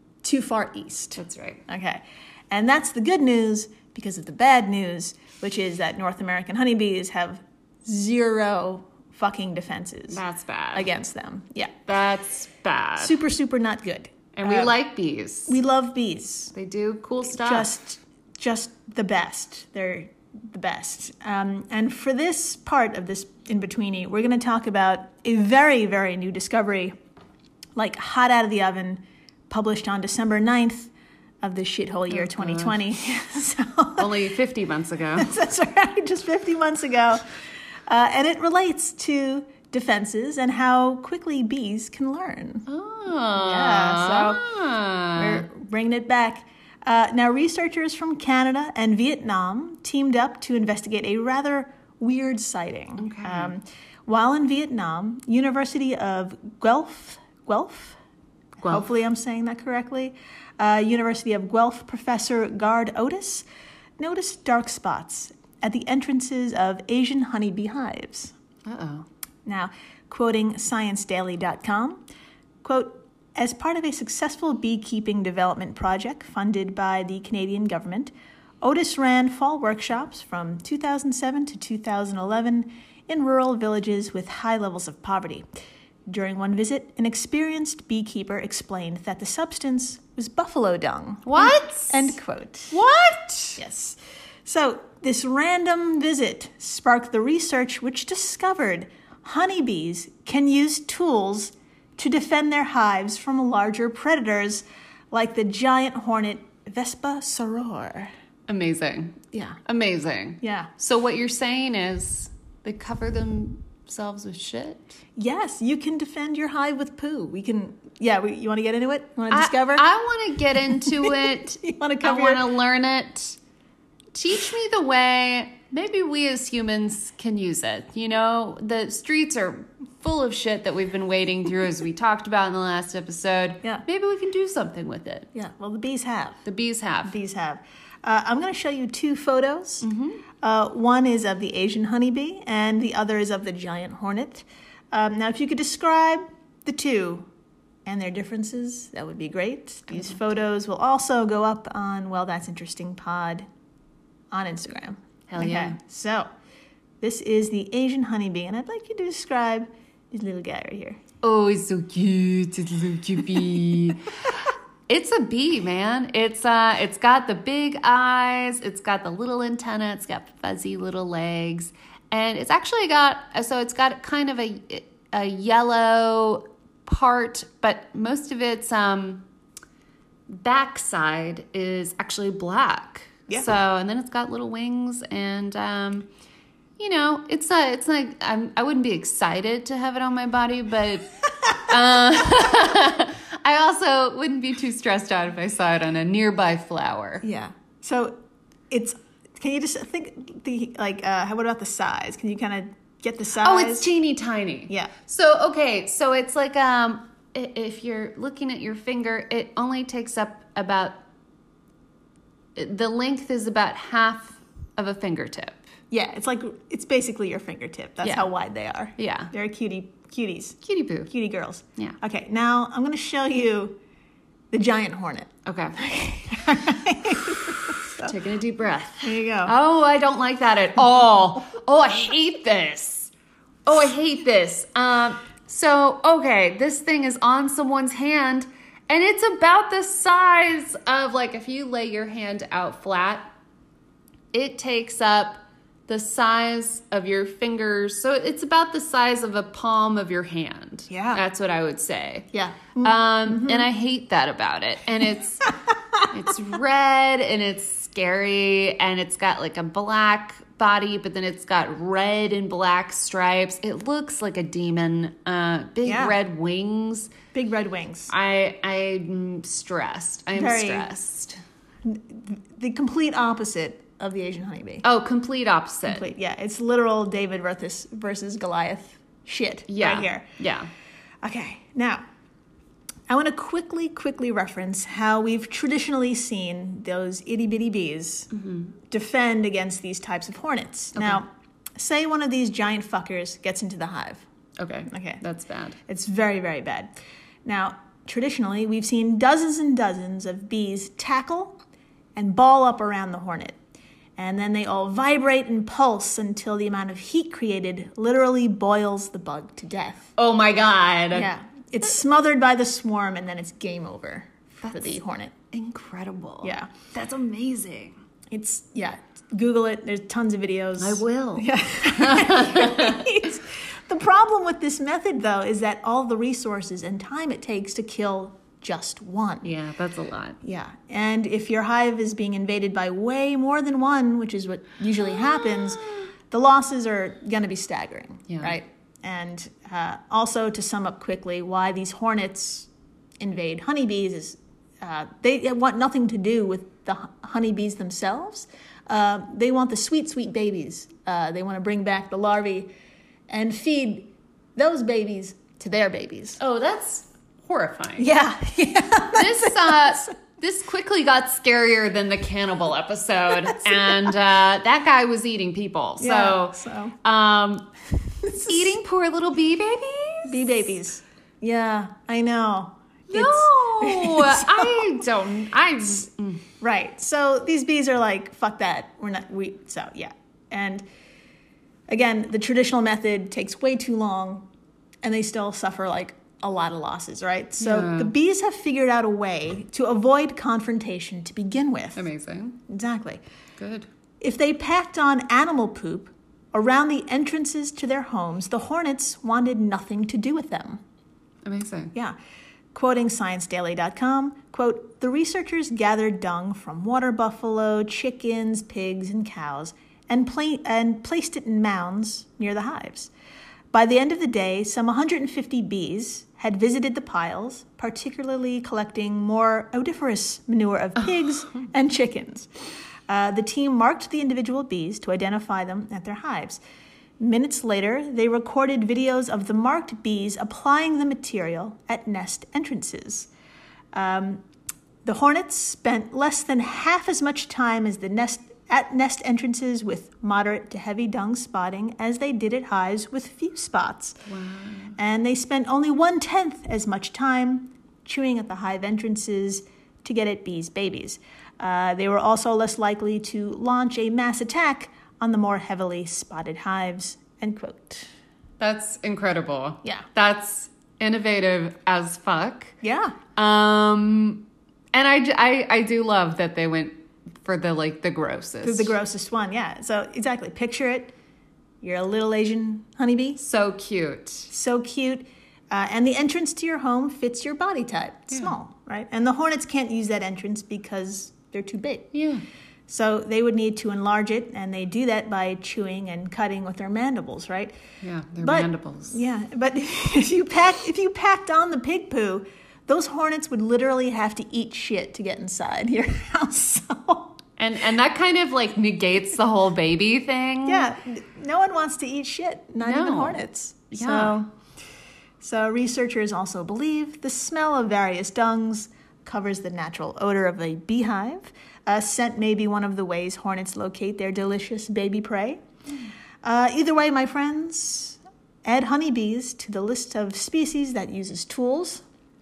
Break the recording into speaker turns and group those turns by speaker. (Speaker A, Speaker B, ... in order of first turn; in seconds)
Speaker A: 0.2-10.2, 10.7-11.7, 13.0-14.7, 15.5-16.5, 17.2-26.9, 27.8-34.1, 35.2-37.2, 37.9-42.6, 43.3-44.4, 45.1-58.0, 58.6-63.5, 64.0-68.3, 69.5-72.0, 72.6-85.4, 86.1-92.8, 93.6-108.1, 110.4-110.7, 115.2-119.8, 120.6-122.5, 135.3-136.4, 137.0-139.8, 140.4-147.2, 147.8-153.4, 154.3-156.2, 157.0-161.0, 197.2-198.2, 198.7-203.9, 215.9-220.6, 221.1-223.8, 224.5-228.1, 229.0-229.5, 250.9-251.2, 252.3-253.7, 265.8-266.2, 267.3-268.1, 270.3-270.9, 271.8-274.8, 275.9-280.2, 281.2-282.0, 283.1-288.3, 288.9-294.2, 294.9-295.2, 295.9-296.9, 297.4-301.6, 302.1-303.6, 304.2-310.1, 311.1-315.3, 316.4-316.7, 318.3-329.5, 330.4-342.7, 343.2-352.7, 353.3-356.4, 358.0-360.0, 366.0-366.9, 368.2-368.8, 370.2-374.9, 376.6-380.8, 381.9-384.4, 385.0-392.0, 392.7-393.2, 394.2-400.8, 402.7-413.1, 413.7-422.5, 423.1-426.6, 427.2-433.3, 433.9-434.4, 435.0-444.2, 445.0-458.1, 462.8-463.1, 468.6-471.1, 471.8-473.4, 474.5-482.1, 482.9-487.7, 488.4-497.4, 500.6-504.5, 505.4-515.6, 516.4-522.0
Speaker B: 1.1-1.6, 10.1-10.9, 11.8-13.2, 14.3-15.6, 16.5-17.7, 32.1-32.8, 34.0-35.3, 42.7-45.4, 53.0-53.5, 58.6-58.9, 68.7-69.0, 91.2-92.2, 92.7-93.6, 108.5-115.0, 119.3-123.4, 124.1-135.3, 136.4-137.2, 139.8-140.2, 149.9-150.2, 155.3-155.8, 161.2-164.1, 164.9-179.2, 180.3-186.1, 186.8-197.2, 203.4-211.0, 212.6-215.6, 218.0-218.3, 219.0-219.3, 220.6-221.1, 225.4-225.8, 228.0-233.1, 233.7-243.3, 244.3-252.3, 252.8-255.5, 256.1-267.1, 268.1-271.4, 274.8-276.1, 279.7-280.7, 288.3-288.7, 290.9-291.2, 294.6-295.8, 310.2-311.3, 314.6-315.0, 315.5-317.9, 320.8-323.1, 329.4-330.4, 338.3-338.6, 356.4-358.1, 359.1-367.7, 368.3-370.6, 373.1-376.4, 387.6-388.1, 391.9-392.6, 393.6-393.9, 401.4-401.9, 444.2-445.0, 458.6-462.7, 463.4-468.9, 473.4-474.5, 478.3-478.5, 482.1-482.4, 488.0-489.2, 497.6-500.9, 502.8-504.4